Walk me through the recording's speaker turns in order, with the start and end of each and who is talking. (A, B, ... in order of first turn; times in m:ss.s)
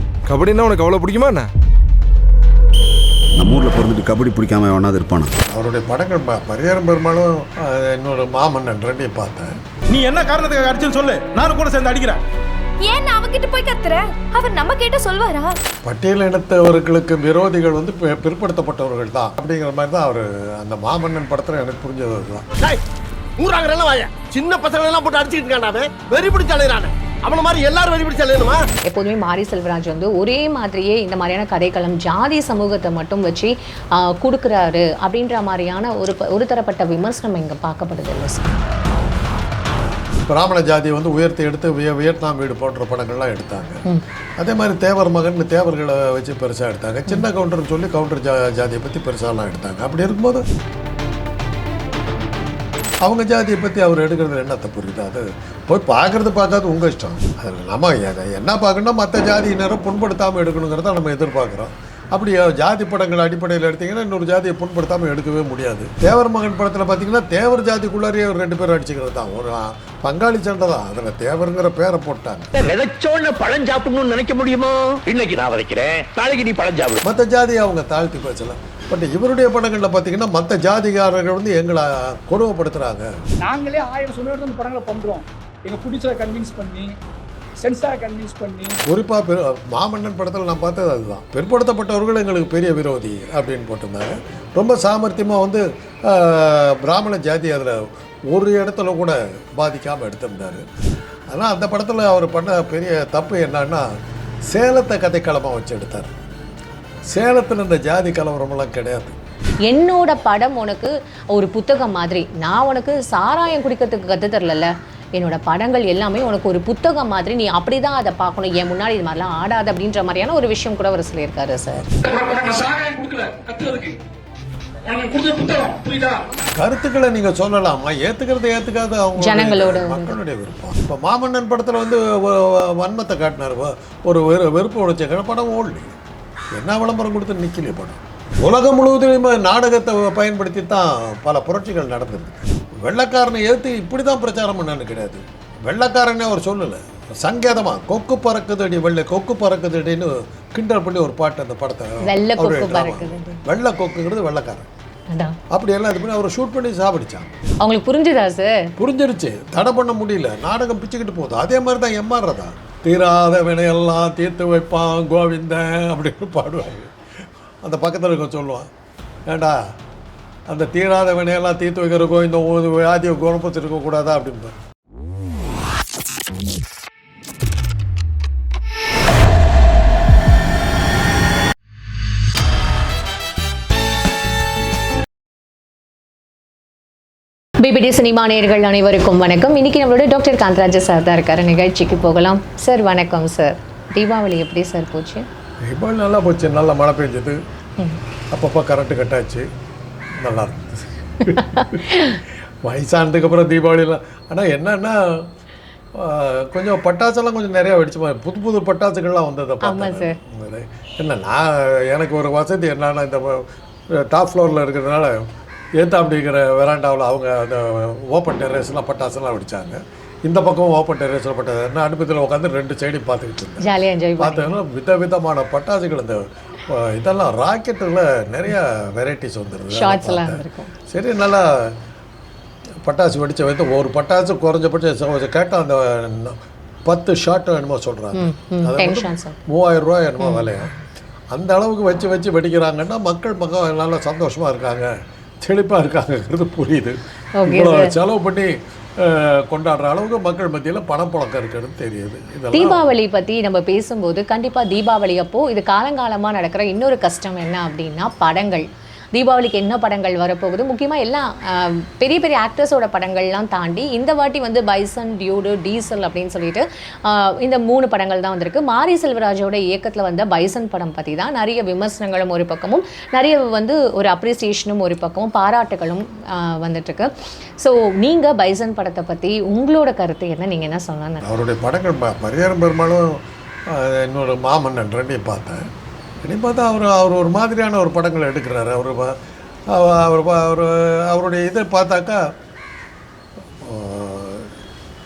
0:00.3-0:01.5 A
0:03.4-0:05.3 B
0:05.5-0:09.6 C
0:09.9-0:12.2 D
0:12.8-0:15.6 E
0:15.8-0:22.5 C
0:23.4-0:28.6 F
0:28.9-0:38.6 G
0:40.3-0:43.8 C
0:44.4-0:50.5 C
0:53.0-1:12.5 C
1:12.6-1:17.0 F
1:17.0-1:23.1 C
1:23.4-1:26.9 H
1:27.6-1:28.8 H
1:28.9-1:40.7 C
1:41.3-1:43.9 C
1:44.5-1:46.2 C
1:47.1-1:49.2 C
1:49.7-2:01.9 G
2:02.0-2:04.0 A
2:04.8-2:06.3 A
2:06.6-2:15.9 C
2:09.2-2:10.2 G
2:16.5-2:34.7 C
2:32.0-2:33.4 G
2:35.1-2:35.4 G
2:35.5-2:37.4 C
2:37.6-2:38.7 G
2:38.8-2:47.0 C
2:47.6-2:48.7 C
2:49.3-2:49.6 C
2:50.5-2:54.6 C
3:07.6-3:15.3 G
3:15.6-3:17.4 C
3:18.3-3:19.5 C
3:20.2-3:22.1 C
3:21.3-3:22.2 G
3:22.6-3:25.3 C
3:25.9-3:35.3 C
3:29.6-3:30.2 G
3:35.8-3:43.7 C
3:43.6-3:44.6 G
3:44.2-3:51.8 C
3:49.7-3:50.7 G
3:52.8-4:00.7 C
3:58.2-3:59.4 G
4:00.2-4:00.5 G
4:01.3-4:12.8 C
4:07.4-4:07.9 G
4:12.5-4:41.2 G
4:41.2-4:45.7 C
4:46.2-4:52.2 C
4:53.6-4:54.5 C